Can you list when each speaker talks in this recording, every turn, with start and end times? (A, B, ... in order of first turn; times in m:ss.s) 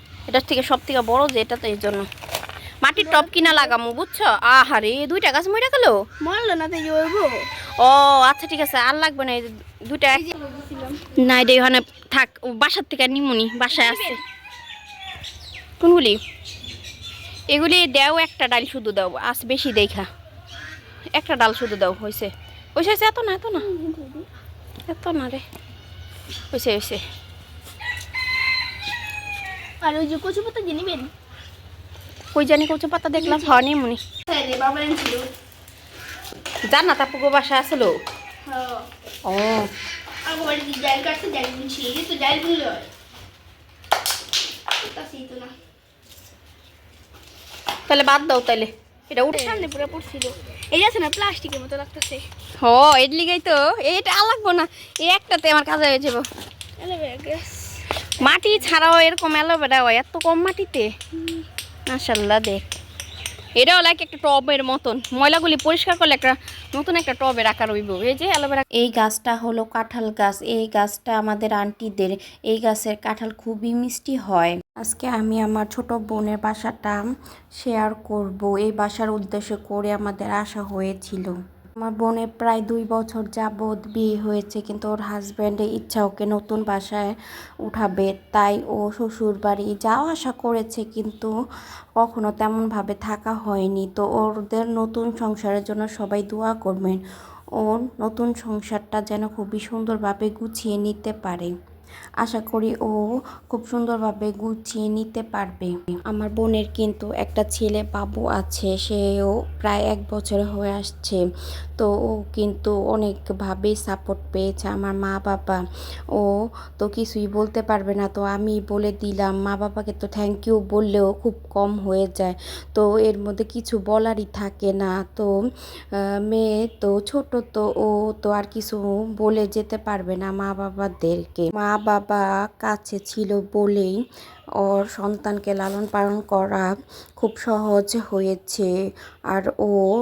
0:00.3-0:02.0 A
0:02.8-0:06.0 A
0:03.0-0:03.8 B
0:06.2-0:07.4 B
0:07.8-0:10.2 A
0:10.2-0:11.1 B
0:11.2-0:14.2 A
0:13.7-0:14.2 B
0:15.8-0:16.2 A
0:17.5-0:20.1 A
0:21.2-0:23.6 A
0:23.6-0:24.3 B
0:24.9-0:25.4 A
0:26.5-0:27.0 A
0:29.8-0:31.1 B
0:32.3-0:34.0 A
0:33.2-0:33.6 B
0:34.2-0:35.3 B
0:36.7-0:38.0 A
0:38.5-0:38.9 B
0:39.3-0:39.6 A
0:40.2-0:42.9 B
0:44.8-0:45.5 B
0:47.9-0:49.7 A
0:49.3-0:52.2 B
0:52.6-0:56.2 A
0:56.8-0:58.7 B
0:58.2-1:00.9 A
1:01.9-1:02.7 A
1:03.6-1:08.6 A
1:08.8-1:17.0 C
1:17.6-1:31.3 C
1:32.0-1:37.0 C
1:37.6-1:41.5 C
1:42.2-1:43.0 C
1:43.5-1:51.2 C
1:51.8-1:55.6 C
1:56.8-2:05.3 C
2:06.3-2:14.0 C
2:14.6-2:16.7 C
2:17.2-2:18.7 C
2:19.3-2:19.8 C